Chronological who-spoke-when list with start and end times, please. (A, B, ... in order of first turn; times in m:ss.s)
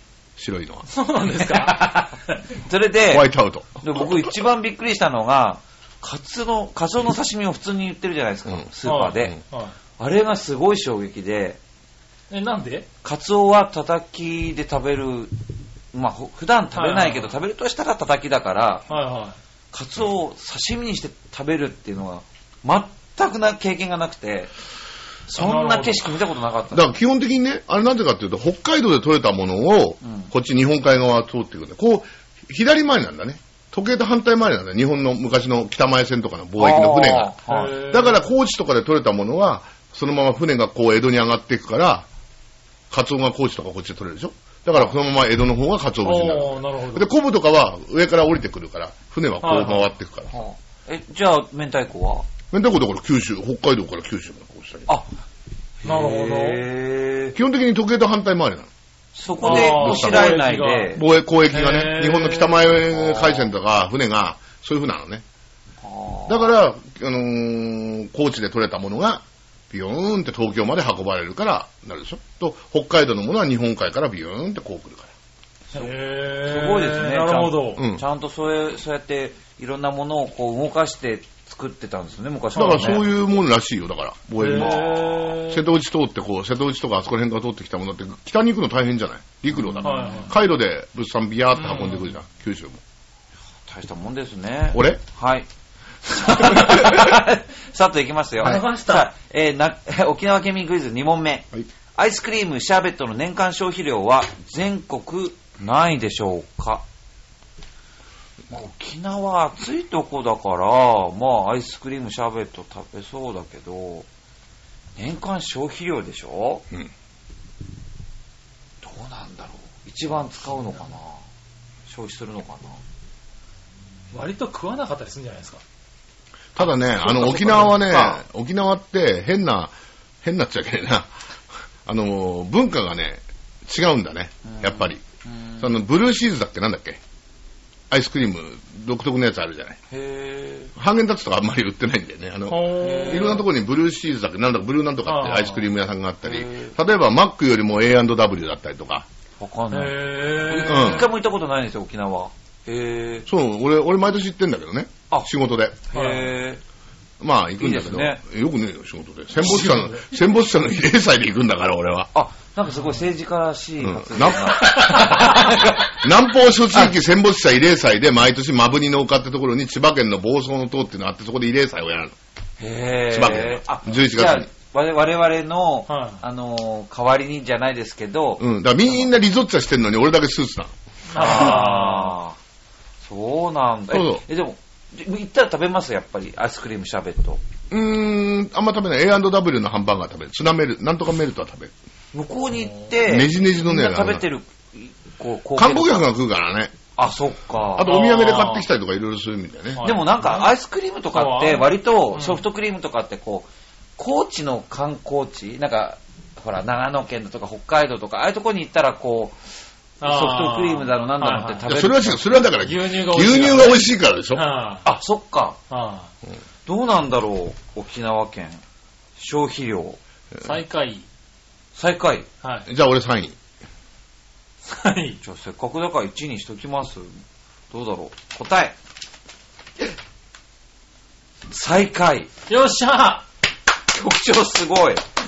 0:00.4-0:00.8 A
0:00.9-0:02.1 B
0:01.3-0:09.4 C
0:03.1-0:04.3 A
0:08.8-0:09.7 B
0:10.0-0:11.6 C
0:12.3-0:12.9 B
0:13.0-0:15.3 C
0:15.9-0:18.9 C
0:16.7-0:17.3 B
0:18.9-0:19.4 B
0:19.7-0:24.5 C
0:25.3-0:26.9 C
0:25.3-0:26.1 B
0:26.7-0:42.1 A
0:30.0-0:30.3 C
0:36.6-0:37.8 C
0:37.5-0:38.2 B
0:42.9-0:50.3 A
0:46.0-0:47.1 B
0:49.4-0:49.9 B
0:50.3-0:52.3 C
0:52.5-0:54.9 A
0:54.9-0:55.1 C
0:55.8-0:57.4 C
0:55.8-0:56.6 B
0:57.3-0:58.7 A
0:59.1-1:01.0 C
0:59.4-1:02.7 B
0:59.4-1:05.2 A
1:02.9-1:03.5 C
1:05.8-1:06.5 C
1:06.3-1:15.1 A
1:15.7-1:23.0 C
1:15.7-1:17.8 B
1:17.8-1:18.0 A
1:22.5-1:23.0 B
1:22.5-1:32.8 A
1:24.4-1:25.6 B
1:24.5-1:25.4 C
1:29.5-1:30.3 C
1:29.8-1:30.3 B
1:31.6-1:32.1 B
1:33.7-1:35.5 C
1:34.7-1:35.0 A
1:36.0-1:46.8 C
1:38.4-1:39.1 B
1:48.5-1:54.1 C
1:55.0-1:56.6 C
1:58.8-2:01.2 C
2:01.9-2:02.8 C
2:04.1-2:05.6 B
2:06.6-2:11.1 A
2:07.0-2:08.2 C
2:11.8-2:15.0 A
2:14.4-2:15.7 C
2:15.6-2:17.0 A
2:17.9-2:19.8 A
2:19.9-2:20.7 C
2:20.7-2:29.0 A
2:22.5-2:23.4 B
2:22.8-2:23.4 C
2:25.0-2:25.7 B
2:26.2-2:26.7 C
2:29.4-2:33.3 C
2:29.7-2:31.1 B
2:30.6-2:31.1 A
2:33.3-2:35.8 A
2:35.9-2:36.6 C
2:35.9-2:36.3 B
2:37.2-2:42.1 A
2:37.6-2:38.2 C
2:39.4-2:40.0 B
2:42.1-2:46.0 C
2:42.7-2:43.0 B
2:43.8-2:52.1 A
2:44.9-2:45.3 B
2:52.6-2:59.1 C
2:53.1-2:54.5 A
2:55.9-2:56.2 B
2:58.4-3:00.7 A
3:01.1-3:02.2 B
3:01.1-3:02.4 C
3:01.2-3:01.5 A
3:03.0-3:07.4 C
3:03.9-3:04.2 A
3:07.7-3:11.7 A
3:12.1-3:16.1 C
3:13.0-3:14.2 A
3:15.6-3:16.7 A
3:17.0-3:18.0 C
3:17.8-3:19.8 A
3:17.8-3:18.7 B
3:19.7-3:20.5 B
3:19.8-3:29.4 C
3:21.1-3:22.4 B
3:30.0-3:31.7 B
3:30.0-3:32.2 C
3:31.7-3:34.4 A
3:32.6-3:34.8 B
3:34.8-3:35.6 C
3:35.7-3:36.1 B
3:36.6-3:38.6 C
3:39.2-3:40.0 C
3:40.4-3:41.0 B
3:41.7-3:42.3 C
3:42.4-3:42.7 B
3:42.6-3:43.4 A
3:44.6-3:45.2 B
3:45.2-3:47.1 C
3:47.7-3:48.8 C
3:51.5-3:52.3 C
3:52.5-3:53.2 B
3:53.9-3:55.0 C